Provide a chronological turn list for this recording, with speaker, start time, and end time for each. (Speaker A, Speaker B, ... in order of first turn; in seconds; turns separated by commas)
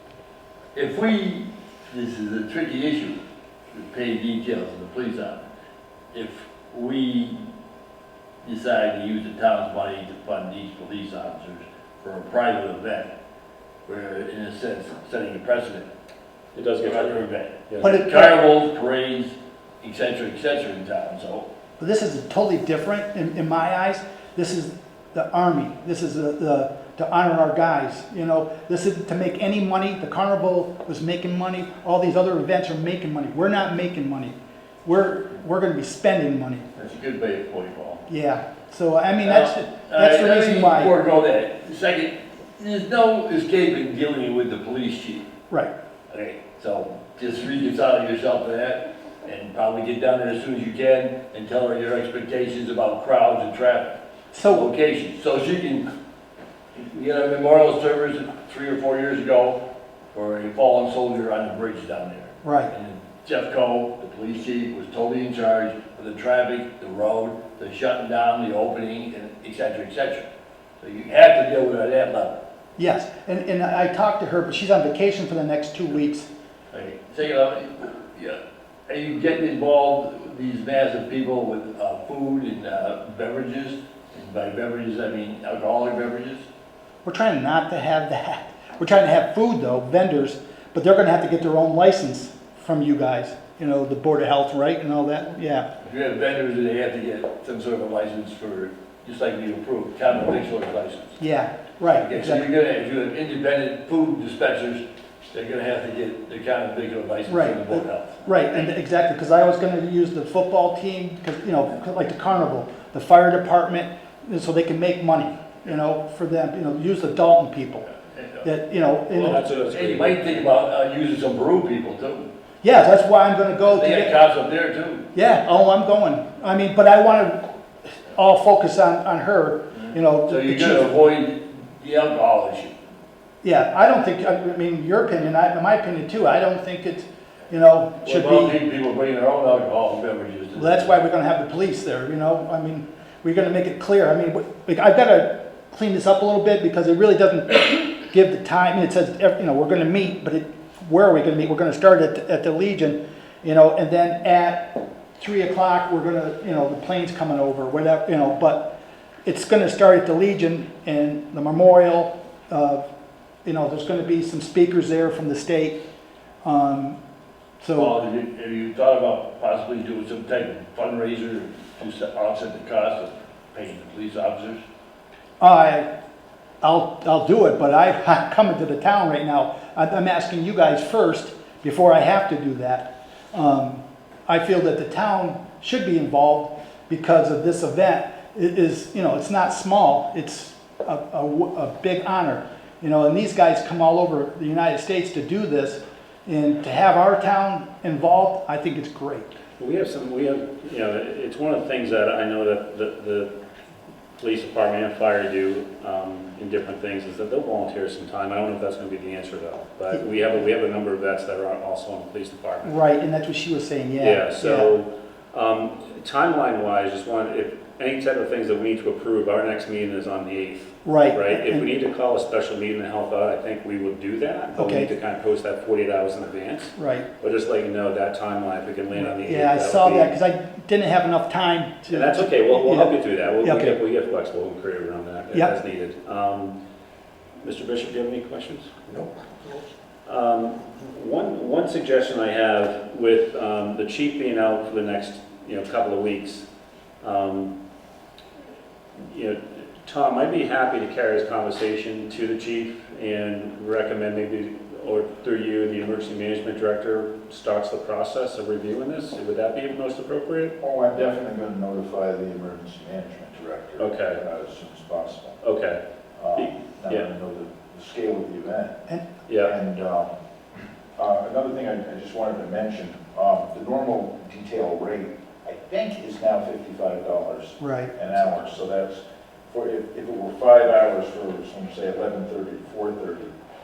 Speaker A: 0.7-5.4, Speaker A: 6.1-7.4, Speaker A: 8.4-13.2, Speaker A: 13.9-15.9, Speaker B: 16.6-17.9, Speaker A: 16.8-21.5, Speaker C: 17.8-18.4, Speaker C: 21.8-36.7, Speaker A: 36.8-38.0, Speaker C: 38.1-40.9, Speaker A: 39.2-45.3, Speaker A: 46.1-55.9, Speaker C: 54.3-54.7, Speaker A: 56.8-59.6, Speaker A: 60.1-70.3, Speaker C: 62.4-62.7, Speaker A: 70.8-72.4, Speaker C: 72.8-76.3, Speaker A: 76.7-86.5, Speaker C: 87.0-95.7, Speaker A: 95.8-101.2, Speaker C: 101.2-102.5, Speaker A: 101.9-108.2, Speaker C: 107.3-117.9, Speaker A: 117.9-118.5, Speaker C: 118.4-119.4, Speaker B: 119.1-120.5, Speaker A: 119.1-122.3, Speaker C: 122.6-124.2, Speaker A: 123.6-125.1, Speaker C: 125.1-127.5, Speaker C: 128.1-130.9, Speaker A: 129.7-132.8, Speaker C: 133.4-138.6, Speaker A: 138.0-140.9, Speaker C: 140.6-158.8, Speaker C: 159.3-162.9, Speaker C: 163.4-165.8, Speaker C: 166.4-167.0, Speaker C: 167.6-168.0, Speaker A: 167.8-174.6, Speaker C: 175.4-175.9, Speaker C: 176.6-199.4, Speaker B: 199.6-203.3, Speaker B: 204.2-212.8, Speaker C: 212.6-214.7, Speaker B: 214.0-230.2, Speaker C: 220.8-221.7, Speaker C: 224.6-224.9, Speaker C: 226.8-227.1, Speaker C: 228.9-233.8, Speaker B: 231.9-236.6, Speaker B: 237.4-238.9, Speaker B: 240.1-246.5, Speaker B: 247.0-247.6, Speaker B: 249.0-260.6, Speaker D: 260.6-265.4, Speaker B: 263.8-264.2, Speaker B: 265.4-265.8, Speaker D: 266.2-268.8, Speaker B: 266.4-267.1, Speaker B: 269.3-269.6, Speaker D: 269.4-270.1, Speaker D: 271.0-283.4, Speaker C: 277.6-277.9